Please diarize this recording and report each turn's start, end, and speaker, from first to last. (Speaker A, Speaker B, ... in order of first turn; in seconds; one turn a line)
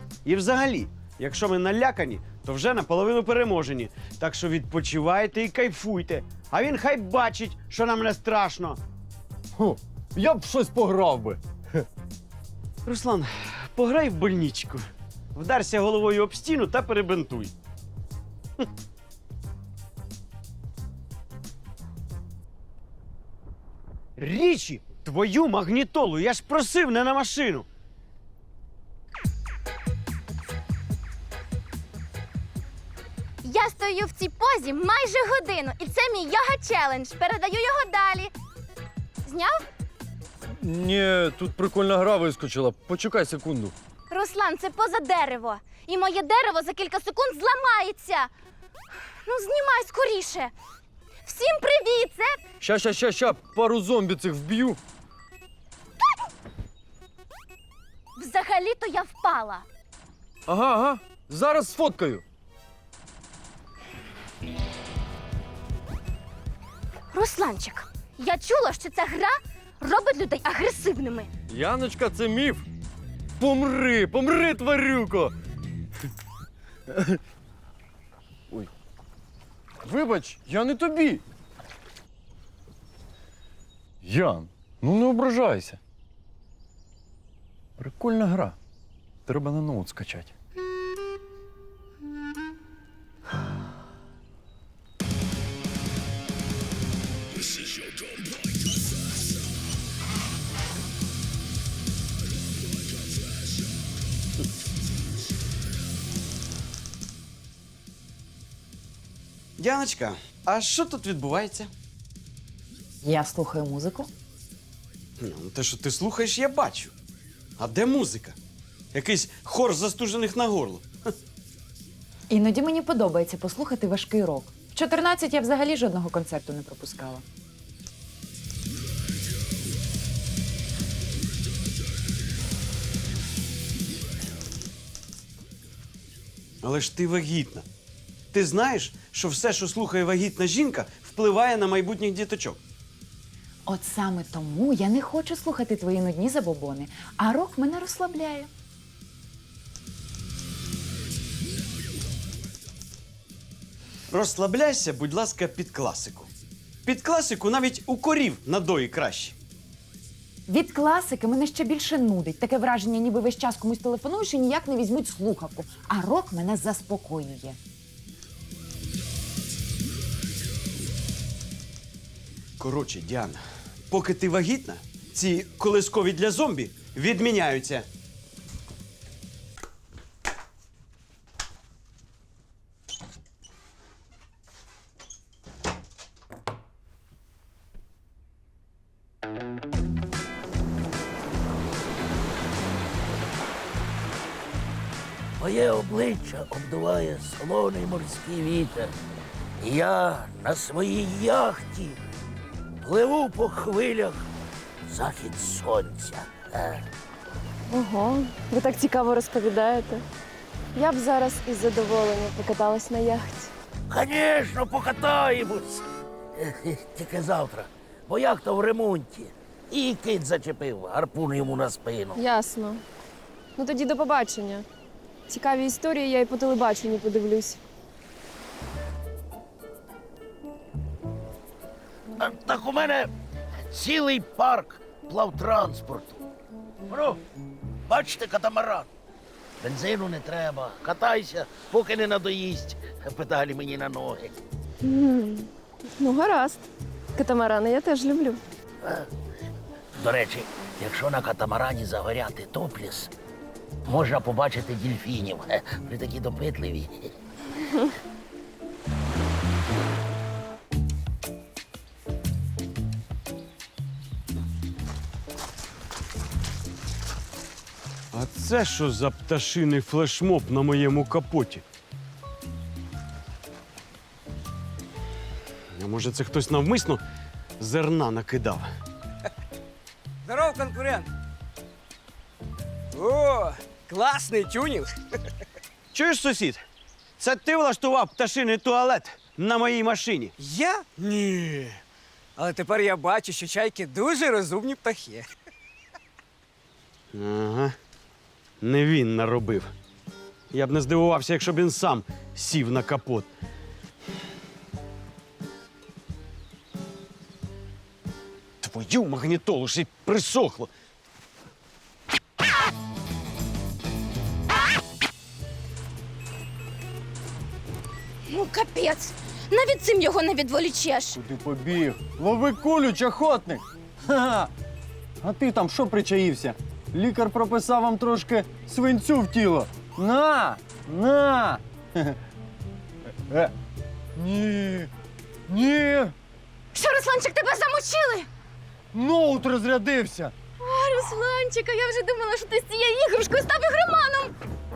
Speaker A: 0.2-8.8
Speaker B: 9.6-11.8
Speaker A: 12.8-17.5
Speaker A: 24.2-27.7
Speaker C: 33.4-38.3
Speaker C: 39.2-39.7
Speaker B: 40.6-43.8
Speaker C: 44.1-48.3
Speaker C: 49.2-50.5
Speaker C: 51.2-52.4
Speaker B: 52.6-54.8
Speaker C: 58.2-59.6
Speaker B: 60.5-62.2
Speaker C: 67.1-71.3
Speaker B: 71.5-72.7
Speaker B: 73.4-75.3
Speaker B: 76.9-77.2
Speaker B: 79.8-81.2
Speaker B: 84.0-85.8
Speaker B: 87.8-88.6
Speaker B: 89.3-90.3
Speaker A: 109.6-111.7
Speaker D: 113.0-114.1
Speaker A: 115.2-116.9
Speaker A: 117.6-118.3
Speaker A: 118.9-121.1
Speaker D: 122.3-127.2
Speaker A: 136.6-137.7
Speaker A: 138.3-142.6
Speaker D: 143.7-148.5
Speaker A: 154.1-156.3
Speaker A: 156.8-159.3
Speaker D: 160.5-167.6
Speaker A: 172.6-177.9
Speaker E: 195.4-198.9
Speaker E: 199.6-202.0
Speaker E: 202.8-204.3
Speaker E: 204.9-206.8
Speaker F: 207.7-210.0
Speaker F: 210.8-213.5
Speaker E: 213.9-215.8
Speaker E: 216.3-222.2
Speaker F: 222.2-222.8
Speaker F: 223.6-224.7
Speaker F: 225.3-227.6
Speaker E: 232.2-233.1
Speaker E: 233.7-236.2
Speaker E: 236.9-237.2
Speaker E: 237.9-238.9
Speaker E: 239.6-244.4
Speaker F: 244.8-248.4
Speaker E: 250.0-253.1
Speaker E: 253.9-257.1
Speaker A: 268.1-271.6
Speaker A: 275.8-277.0
Speaker A: 277.6-278.7
Speaker G: 280.2-281.1
Speaker G: 282.9-284.9
Speaker A: 285.9-286.6
Speaker A: 287.2-290.4
Speaker G: 290.4-290.9
Speaker A: 291.0-291.8
Speaker G: 292.4-295.3
Speaker A: 297.1-297.8
Speaker A: 298.6-299.7
Speaker A: 300.5-303.3
Speaker A: 308.6-310.7
Speaker C: 318.3-321.2
Speaker B: 321.1-324.5
Speaker B: 325.2-332.2
Speaker B: 333.3-333.5
Speaker B: 334.2-334.9
Speaker B: 335.5-336.1
Speaker C: 336.7-338.3
Speaker B: 338.9-340.3
Speaker C: 340.6-344.3